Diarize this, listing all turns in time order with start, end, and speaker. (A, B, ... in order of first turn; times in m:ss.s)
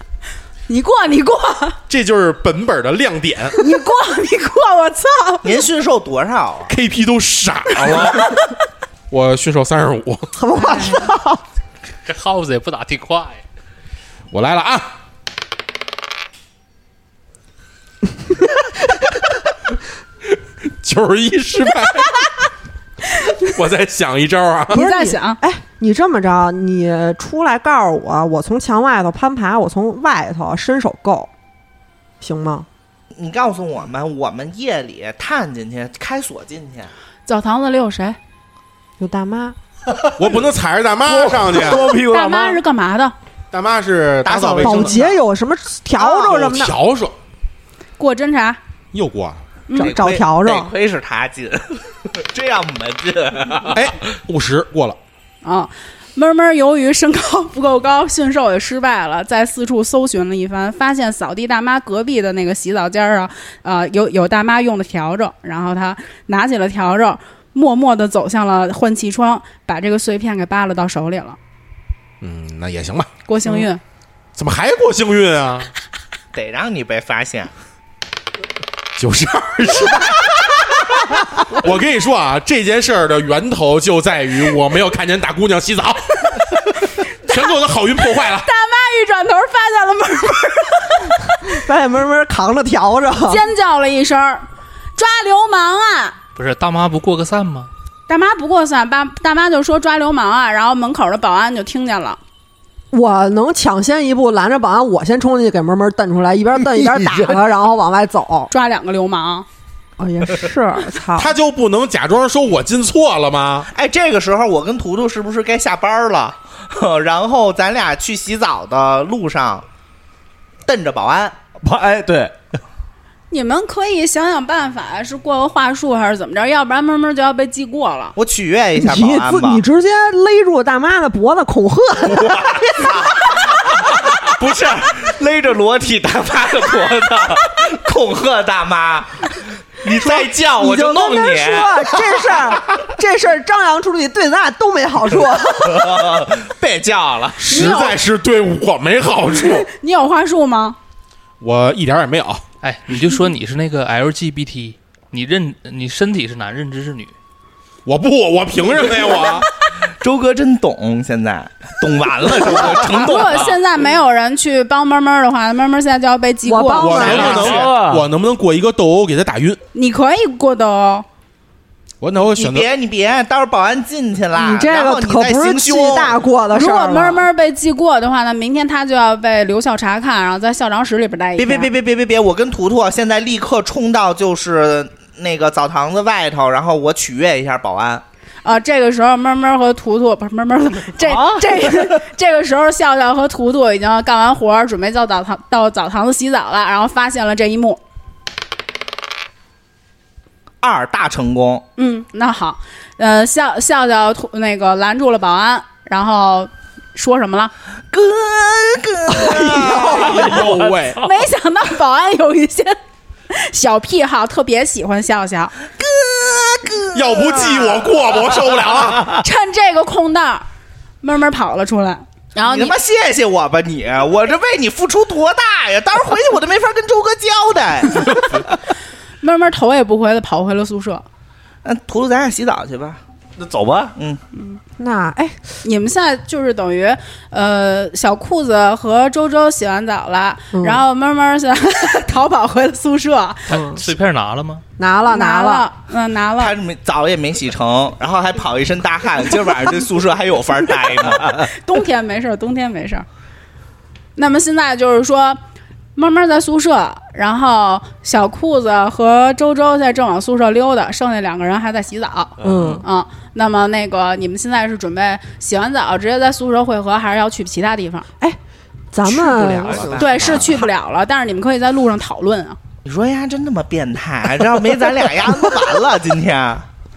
0:00.7-0:01.8 A
0:01.9-0:03.6 B
0:03.6-0:05.5 A
0:05.4-0:06.7 C
0:06.7-0:08.4 B
0:09.1-0:10.3 B
0:10.4-0:11.4 D
0:10.6-0:11.1 A
0:12.1-0:13.4 E
0:14.3-0:14.9 B
0:20.8-0:22.3 B
0:23.4-0:24.8 B
0:24.7-0:25.4 A
0:24.7-0:31.3 D
0:32.2-0:32.7 D
0:33.2-0:36.9 C
0:37.3-0:38.2 A
0:39.0-0:39.6 D
0:40.2-0:41.9 B
0:41.0-0:42.6 F
0:42.0-0:43.2 A
0:43.5-0:45.0 B
0:44.2-0:45.2 C
0:44.6-0:46.8 D
0:46.1-0:47.2 B
0:48.0-0:48.6 A
0:48.9-0:49.4 B
0:49.7-0:49.9 A
0:49.8-0:50.7 D
0:49.8-0:53.8 C
0:53.7-0:55.0 B
0:55.4-1:11.4 A
1:12.2-1:13.1 B
1:13.3-1:13.8 A
1:14.4-1:15.7 B
1:16.3-1:17.5 C
1:19.0-1:28.5 B
1:28.4-1:31.4 A
1:31.4-1:33.4 D
1:33.3-1:36.2 A
1:36.4-1:37.7 E
1:38.1-1:42.2 A
1:42.9-1:48.5 D
1:46.8-1:47.3 F
1:48.5-1:49.5 A
1:50.0-1:51.3 D
1:51.2-1:53.7 B
1:53.7-1:59.7 C
2:00.7-2:01.4 C
2:01.6-2:02.4 F
2:03.3-2:08.2 A
2:08.2-2:09.6 C
2:08.8-2:12.8 D
2:12.1-2:22.6 C
2:19.9-2:26.3 D
2:25.6-2:27.7 C
2:27.4-2:29.7 B
2:27.5-2:28.0 A
2:29.6-2:30.8 A
2:31.4-2:32.4 B
2:32.6-2:37.1 E
2:37.9-2:39.5 B
2:40.0-2:43.6 C
2:42.9-2:47.4 A
2:46.4-2:47.6 D
2:46.7-2:49.6 B
2:47.1-2:47.6 C
2:47.4-2:48.1 F
2:49.7-2:51.1 A
2:52.0-2:52.7 B
2:52.3-2:56.2 C
2:54.3-2:57.3 D
2:56.5-3:01.7 A
3:01.4-3:08.0 C
3:08.4-3:17.8 A
3:11.1-3:11.4 C
3:20.6-3:21.7 C
3:21.8-3:27.5 A
3:27.9-3:30.5 C
3:29.2-3:31.0 B
3:29.3-3:30.4 D
3:31.0-3:32.8 A
3:33.3-3:35.6 A
3:35.8-3:38.6 C
3:36.9-3:39.2 B
3:39.2-3:40.5 A
3:41.0-3:42.8 A
3:42.4-3:48.4 C
3:49.2-3:51.0 A
3:51.6-3:53.0 C
3:53.4-3:54.0 F
3:54.8-3:55.4 D
3:55.6-4:03.5 A
4:00.5-4:00.8 D
4:03.5-4:04.6 E
4:04.8-4:05.7 D
4:05.1-4:06.6 A
4:06.4-4:11.5 C
4:11.4-4:13.1 A
4:14.2-4:15.4 A
4:16.0-4:28.1 A
4:22.4-4:22.8 F
4:22.4-4:22.8 D
4:28.9-4:30.1 D
4:29.1-4:30.6 C
4:30.0-4:32.6 A
4:32.9-4:36.7 C